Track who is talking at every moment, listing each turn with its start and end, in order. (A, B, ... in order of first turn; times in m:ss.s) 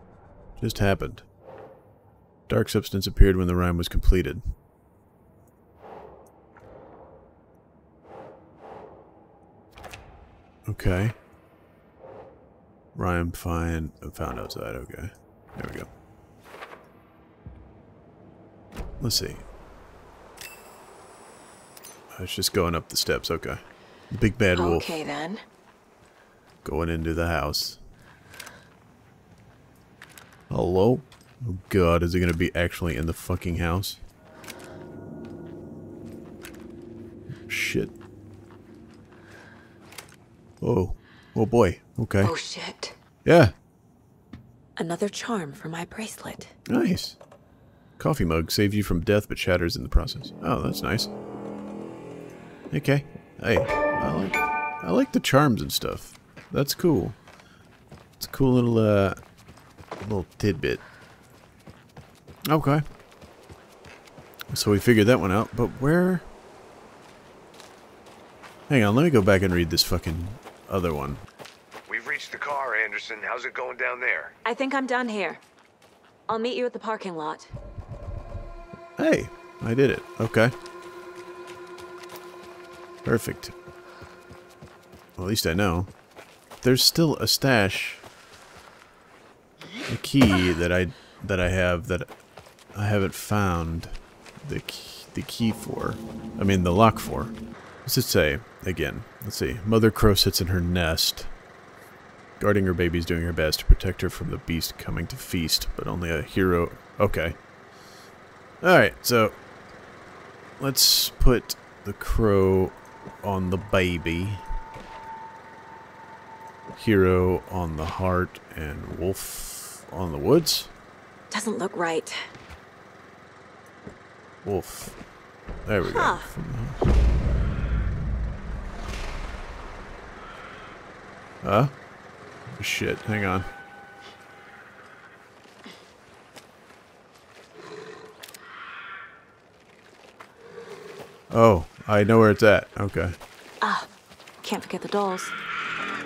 0:00.6-0:01.3 A
0:02.5-0:04.4 A
0:10.7-0:11.2 A
0:13.0-0:15.9 A
0:19.0-0:19.4 A
0:22.1-0:24.9 A
0:24.6-0:25.4 B
0:26.6-0:27.8 A
0:30.5-0:34.0 A
0:37.5-0:37.9 A
0:40.6-0:42.3 A
0:42.2-0:43.0 B
0:43.2-0:43.5 A
0:44.8-0:46.5 B
0:46.7-0:47.2 A
0:48.0-0:51.1 A
0:52.7-0:57.2 A
0:58.2-0:59.2 A
1:00.0-1:00.8 A
1:02.5-1:02.8 A
1:04.5-1:06.3 A
1:08.7-1:11.2 A
1:11.9-1:14.4 C
1:14.4-1:15.4 B
1:16.3-1:17.5 B
1:19.0-1:20.6 A
1:23.0-1:23.5 A
1:25.2-1:25.9 A
1:26.6-1:28.0 A
1:29.9-1:32.1 A
1:32.7-1:37.3 A
1:37.8-1:41.3 A
1:42.4-1:47.4 A
1:48.6-1:49.4 A
1:50.6-1:54.4 A
1:56.7-2:00.7 A
2:01.3-2:02.3 B
2:04.4-2:05.0 A
2:05.6-2:06.8 A
2:05.9-2:06.3 B
2:11.4-2:11.7 A
2:12.5-2:13.5 A
2:21.3-2:23.2 A
2:23.6-2:23.9 B
2:24.4-2:25.4 B